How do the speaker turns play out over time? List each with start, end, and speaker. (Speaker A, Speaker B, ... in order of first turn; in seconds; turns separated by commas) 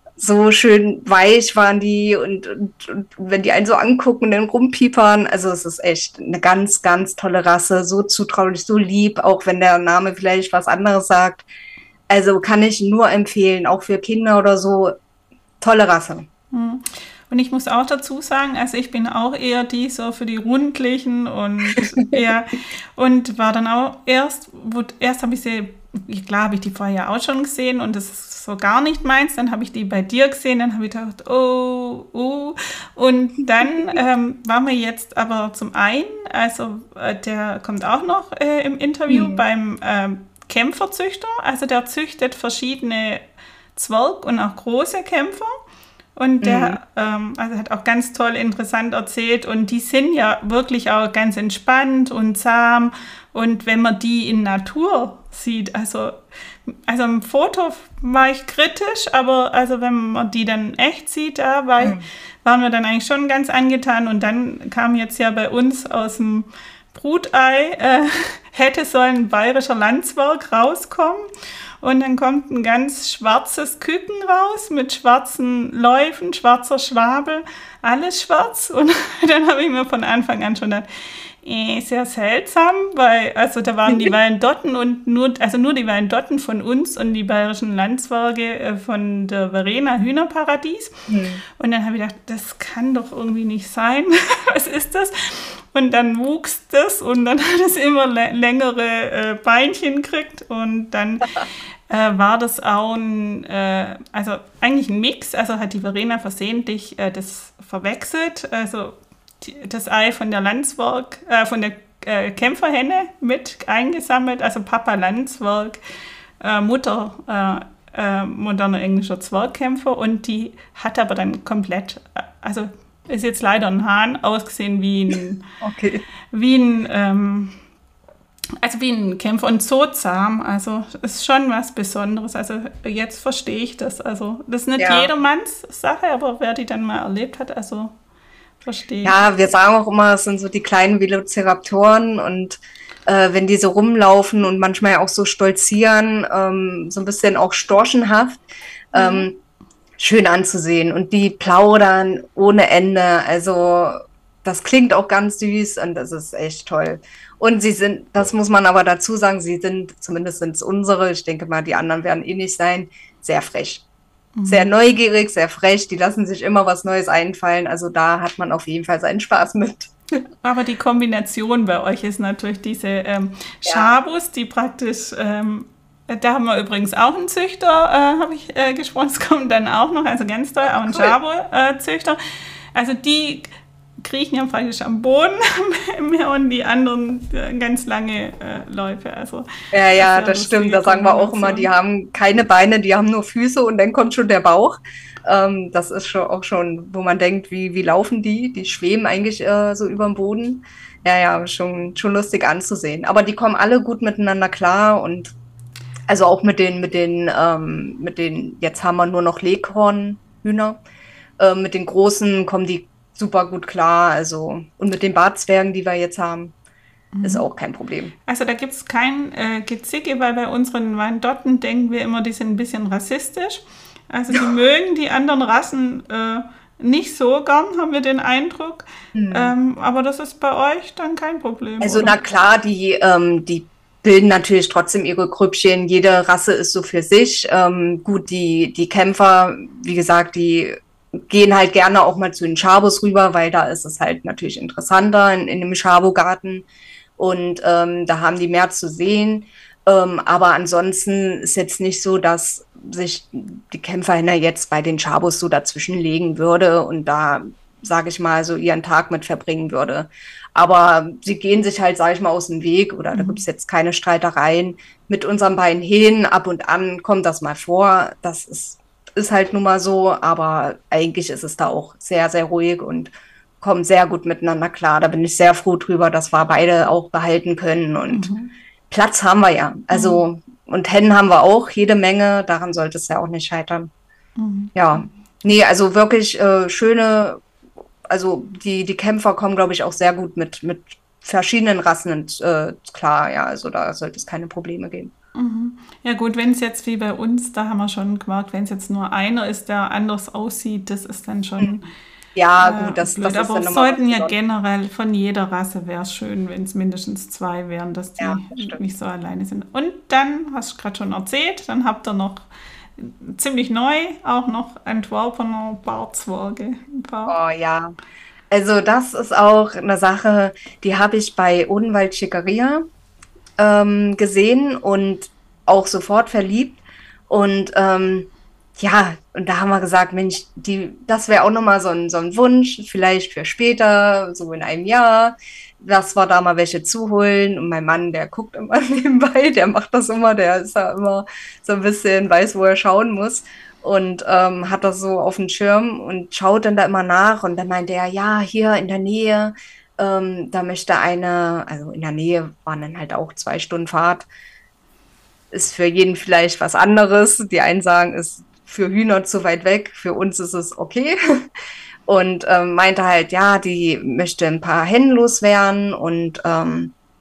Speaker A: 0.2-11.4, Speaker A: 12.1-14.9, Speaker A: 15.6-16.2, Speaker B: 16.5-45.5, Speaker A: 39.1-39.4, Speaker B: 46.1-71.3, Speaker A: 46.4-46.8, Speaker A: 61.8-62.0, Speaker B: 71.8-115.8, Speaker A: 83.9-84.1, Speaker A: 91.1-91.4, Speaker B: 116.4-125.5, Speaker A: 125.6-126.0, Speaker B: 126.3-127.5, Speaker B: 128.6-137.9, Speaker A: 134.8-135.1, Speaker B: 138.6-139.1, Speaker A: 139.0-148.4, Speaker B: 148.9-149.3, Speaker A: 148.9-149.4, Speaker A: 150.0-163.8, Speaker B: 164.3-164.7, Speaker A: 164.5-169.9, Speaker B: 170.4-182.2, Speaker A: 173.6-173.9, Speaker A: 180.8-181.1, Speaker B: 182.7-191.7, Speaker A: 189.7-205.3, Speaker A: 206.1-210.8, Speaker A: 211.4-216.5, Speaker B: 217.1-217.4, Speaker A: 217.2-218.1, Speaker B: 218.2-232.1, Speaker A: 229.1-229.5, Speaker A: 231.8-240.8, Speaker A: 241.3-246.7, Speaker A: 247.2-278.3, Speaker B: 263.1-263.4, Speaker B: 278.1-278.5, Speaker A: 278.9-283.9, Speaker B: 279.9-280.2, Speaker B: 284.4-284.7, Speaker A: 284.7-287.4, Speaker A: 288.1-295.1, Speaker B: 295.3-301.9, Speaker A: 302.4-304.3, Speaker B: 302.6-317.4, Speaker A: 308.2-308.8, Speaker A: 317.3-317.9, Speaker A: 318.5-322.8, Speaker A: 323.6-354.2, Speaker A: 355.5-361.1, Speaker A: 362.1-366.9